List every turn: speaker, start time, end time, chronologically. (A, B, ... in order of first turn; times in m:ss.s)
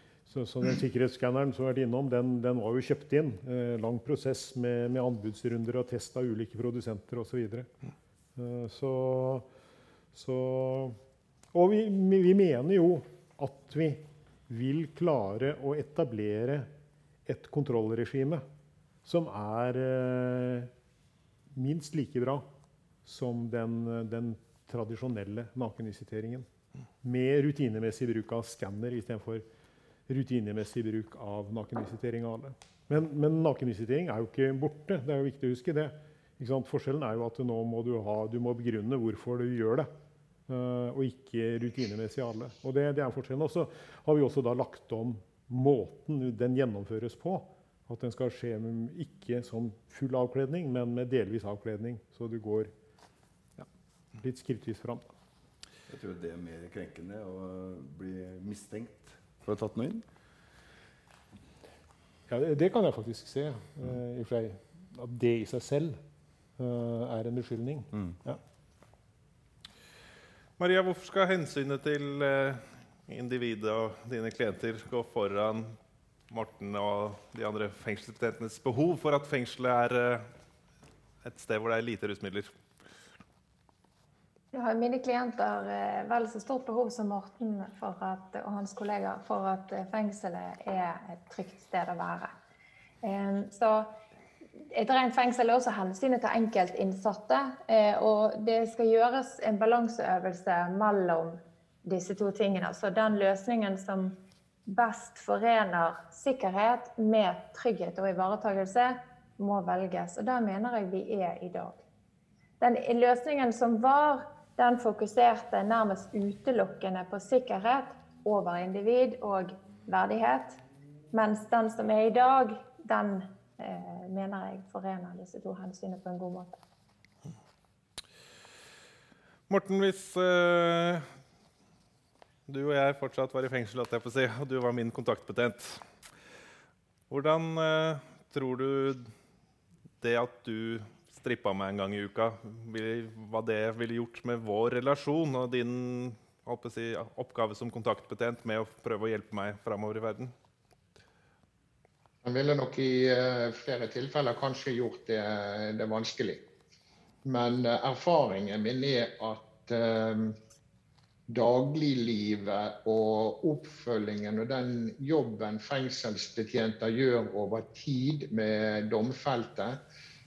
0:00.2-0:07.7 A
0:08.4-0:09.5 A
0:10.1-0:11.0 A
0:11.5-0:16.7 A
0:17.2-0:18.4 A
0:19.0-0:20.7 A
0:21.5-0:22.4 A
0:23.0-0:26.5 A
0:27.0-0:29.4 A
0:30.1-0:39.9 A
0:40.5-0:52.7 A
0:53.6-0:55.1 A
0:55.9-1:00.0 B
1:02.3-1:06.0 A
1:06.6-1:08.4 A
1:10.6-1:15.8 C
1:16.3-1:20.3 C
1:21.2-1:22.5 C
1:24.5-1:32.3 D
1:33.0-1:33.9 D
1:34.7-1:44.2 D
1:44.7-1:51.8 D
1:52.6-2:00.6 D
2:01.1-2:06.6 D
2:09.5-2:11.1 C
2:12.5-2:15.8 C
2:17.1-2:19.1 C
2:20.0-2:30.3 C
2:32.2-2:36.4 E
2:37.2-2:40.4 E
2:41.3-2:49.8 E